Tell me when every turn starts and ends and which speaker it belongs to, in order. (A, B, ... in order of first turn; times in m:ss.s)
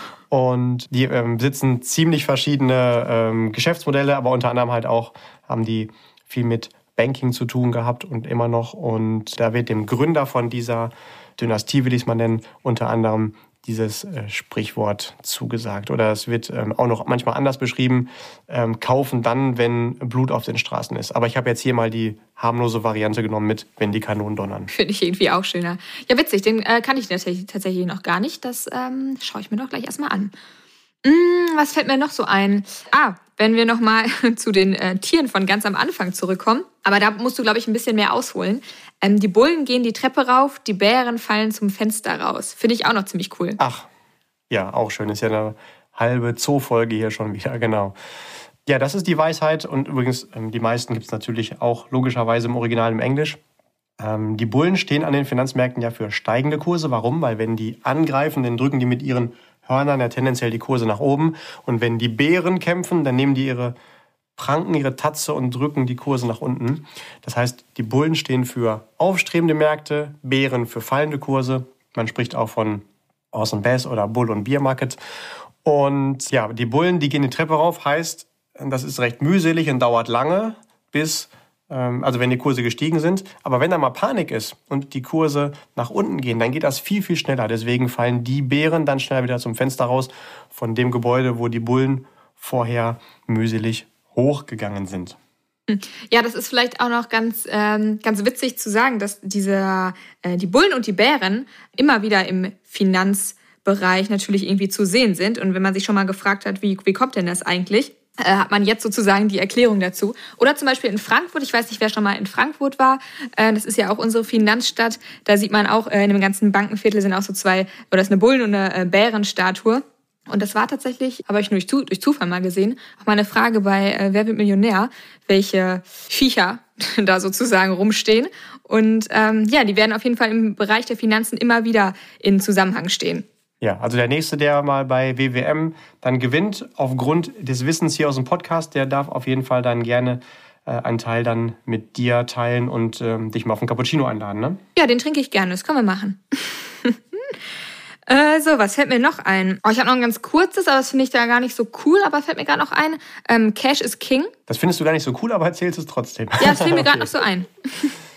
0:00.3-0:24.7 A
0:24.7-0:30.3 B
0:31.0-0:43.6 B
0:43.6-0:43.9 A
0:44.5-0:48.0 A
0:48.7-0:53.4 A
0:54.0-1:03.8 A
1:04.4-1:15.0 A
1:15.6-1:35.2 A
1:35.7-2:13.2 B
2:13.6-2:24.6 A
2:24.8-2:27.4 B
2:28.1-2:34.3 B
2:34.5-2:37.1 A
2:36.4-2:37.9 B